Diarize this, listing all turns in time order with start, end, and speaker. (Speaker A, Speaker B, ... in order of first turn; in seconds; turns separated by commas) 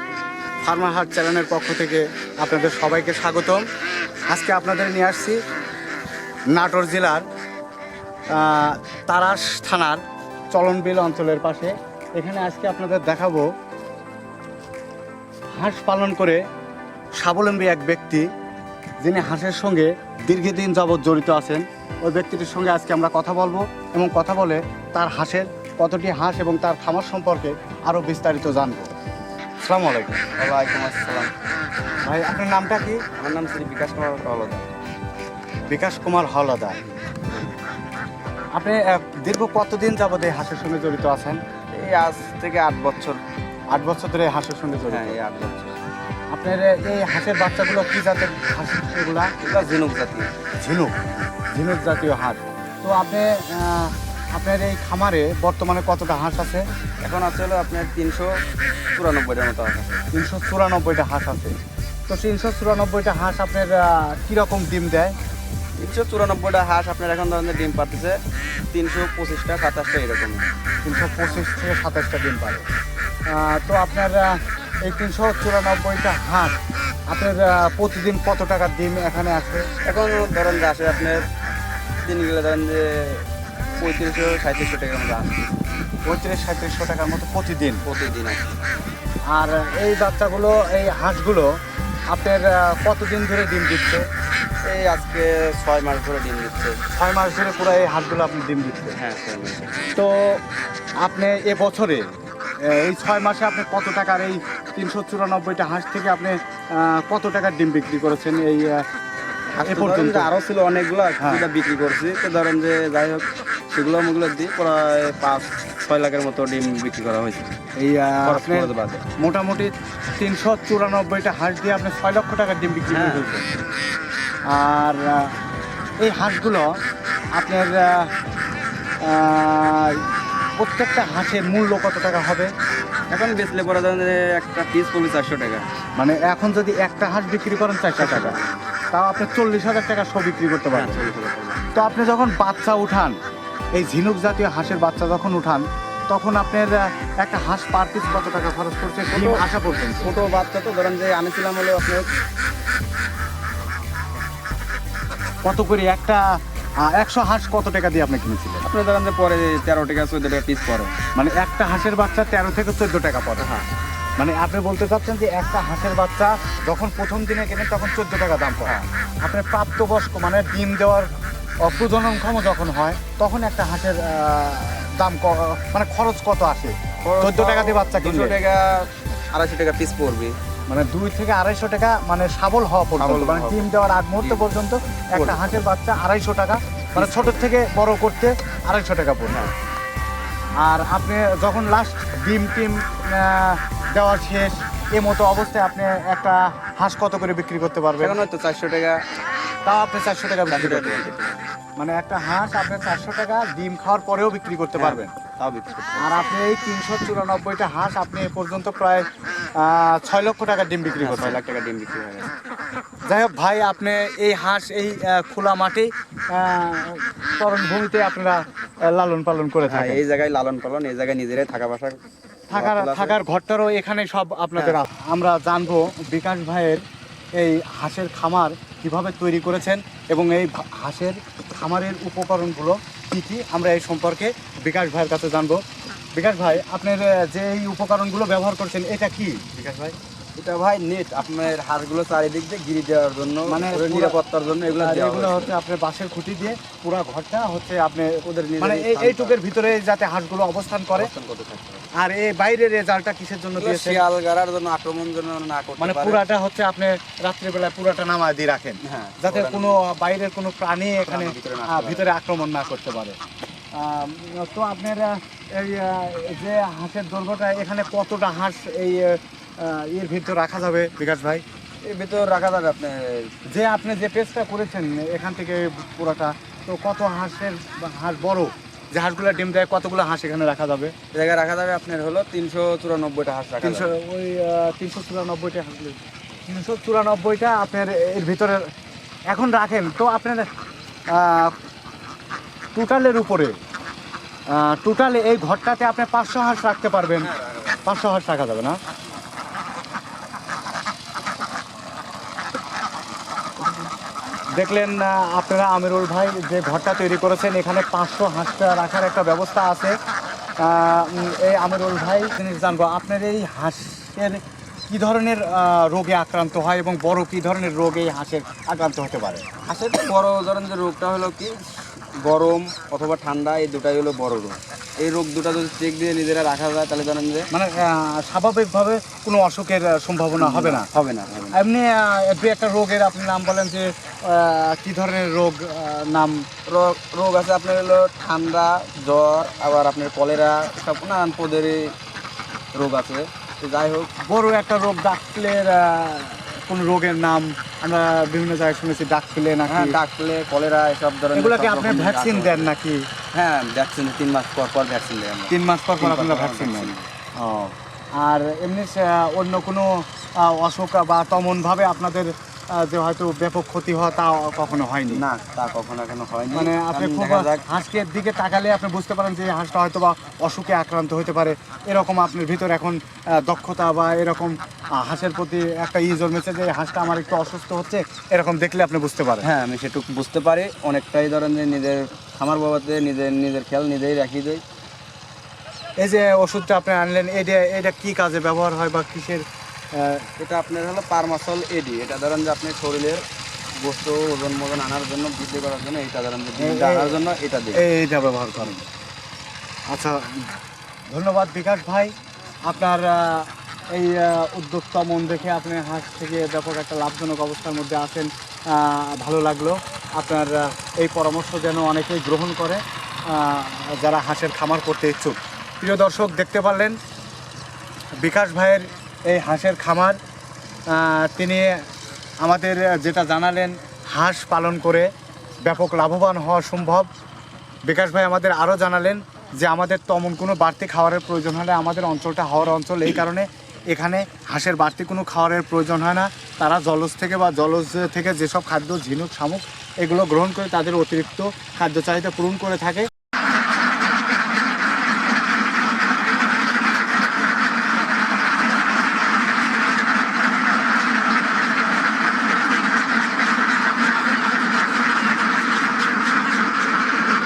Speaker A: 0.6-3.6, Speaker A: 4.3-5.4, Speaker A: 6.5-7.2, Speaker A: 8.3-10.0, Speaker A: 10.5-13.5, Speaker A: 15.6-16.4, Speaker A: 17.2-18.3, Speaker A: 19.0-28.9, Speaker A: 29.6-30.2, Speaker B: 30.4-31.3, Speaker A: 32.0-33.0, Speaker B: 33.1-34.7, Speaker A: 35.7-36.8, Speaker A: 38.5-41.4, Speaker B: 41.7-43.2, Speaker A: 43.7-45.1, Speaker B: 44.9-45.7, Speaker A: 46.3-49.3, Speaker B: 49.4-50.3, Speaker A: 50.6-56.6, Speaker B: 57.0-58.4, Speaker B: 58.9-60.0, Speaker A: 60.1-61.5, Speaker A: 62.1-65.1, Speaker B: 65.8-68.2, Speaker B: 68.7-70.5, Speaker A: 70.8-72.6, Speaker A: 73.3-76.5, Speaker A: 77.1-79.7, Speaker B: 79.8-81.2, Speaker B: 82.0-83.3, Speaker B: 83.8-85.5, Speaker A: 86.0-87.8, Speaker B: 87.8-88.4, Speaker A: 89.3-91.5, Speaker A: 92.1-94.0, Speaker B: 94.7-96.8, Speaker A: 96.9-99.0, Speaker B: 99.0-99.9, Speaker A: 100.0-100.4, Speaker A: 101.0-102.1, Speaker A: 102.6-108.8, Speaker B: 109.6-117.5, Speaker A: 109.6-110.3, Speaker A: 111.2-111.4, Speaker A: 117.8-123.4, Speaker B: 118.2-119.0, Speaker B: 122.9-123.4, Speaker A: 124.5-125.3, Speaker A: 126.0-126.7, Speaker A: 127.3-128.1, Speaker A: 129.0-130.1, Speaker A: 130.6-132.5, Speaker B: 133.1-135.6, Speaker A: 136.0-138.4, Speaker B: 138.0-138.6, Speaker A: 138.9-141.0, Speaker B: 140.7-141.6, Speaker A: 141.7-143.2, Speaker A: 143.7-150.1, Speaker B: 149.1-149.4, Speaker B: 150.0-152.1, Speaker A: 155.4-158.6, Speaker B: 158.6-160.9, Speaker A: 161.1-163.5, Speaker B: 163.4-163.7, Speaker A: 164.2-171.1, Speaker A: 171.6-178.4, Speaker B: 177.0-180.3, Speaker A: 180.7-189.4, Speaker B: 183.0-183.7, Speaker B: 184.2-184.4, Speaker B: 185.1-185.5, Speaker B: 186.9-187.4, Speaker A: 190.6-198.2, Speaker B: 198.0-199.0, Speaker A: 199.6-201.1, Speaker B: 200.5-201.4, Speaker A: 201.8-205.1, Speaker B: 204.8-206.2, Speaker A: 206.0-211.4, Speaker B: 211.0-212.3, Speaker A: 213.1-220.0, Speaker B: 219.6-222.0, Speaker A: 222.5-226.8, Speaker B: 222.5-223.2, Speaker A: 227.3-235.6, Speaker A: 236.2-239.9, Speaker B: 240.4-245.5, Speaker A: 243.5-244.2, Speaker A: 244.7-251.1, Speaker B: 248.2-249.4, Speaker B: 250.9-251.9, Speaker A: 251.9-254.0, Speaker B: 253.6-256.2, Speaker A: 255.8-263.2, Speaker B: 258.8-259.8, Speaker B: 261.1-262.1, Speaker A: 263.7-271.4, Speaker B: 271.8-273.3, Speaker A: 273.5-280.9, Speaker B: 281.1-283.9, Speaker A: 283.6-288.6, Speaker A: 289.3-290.5, Speaker A: 291.1-291.5, Speaker A: 292.7-293.5, Speaker A: 294.5-298.8, Speaker B: 297.2-297.8, Speaker A: 304.6-309.9, Speaker A: 310.6-319.5, Speaker B: 319.6-327.5, Speaker A: 327.5-330.9, Speaker B: 330.4-331.6, Speaker A: 331.5-336.4, Speaker B: 336.7-341.9, Speaker B: 342.7-344.1, Speaker A: 344.3-350.0, Speaker B: 349.7-352.7, Speaker A: 351.3-353.0, Speaker B: 353.3-357.1, Speaker A: 355.5-365.2, Speaker B: 365.1-367.6, Speaker A: 366.5-379.5, Speaker B: 379.4-384.6, Speaker A: 386.0-390.2, Speaker B: 390.4-393.2, Speaker B: 393.8-397.8, Speaker A: 396.6-397.1, Speaker A: 397.7-398.8, Speaker A: 399.9-400.4, Speaker A: 401.1-402.1, Speaker A: 402.6-417.0, Speaker A: 418.2-420.2, Speaker A: 420.9-421.8, Speaker A: 422.4-425.1, Speaker A: 425.6-427.1, Speaker A: 427.9-443.1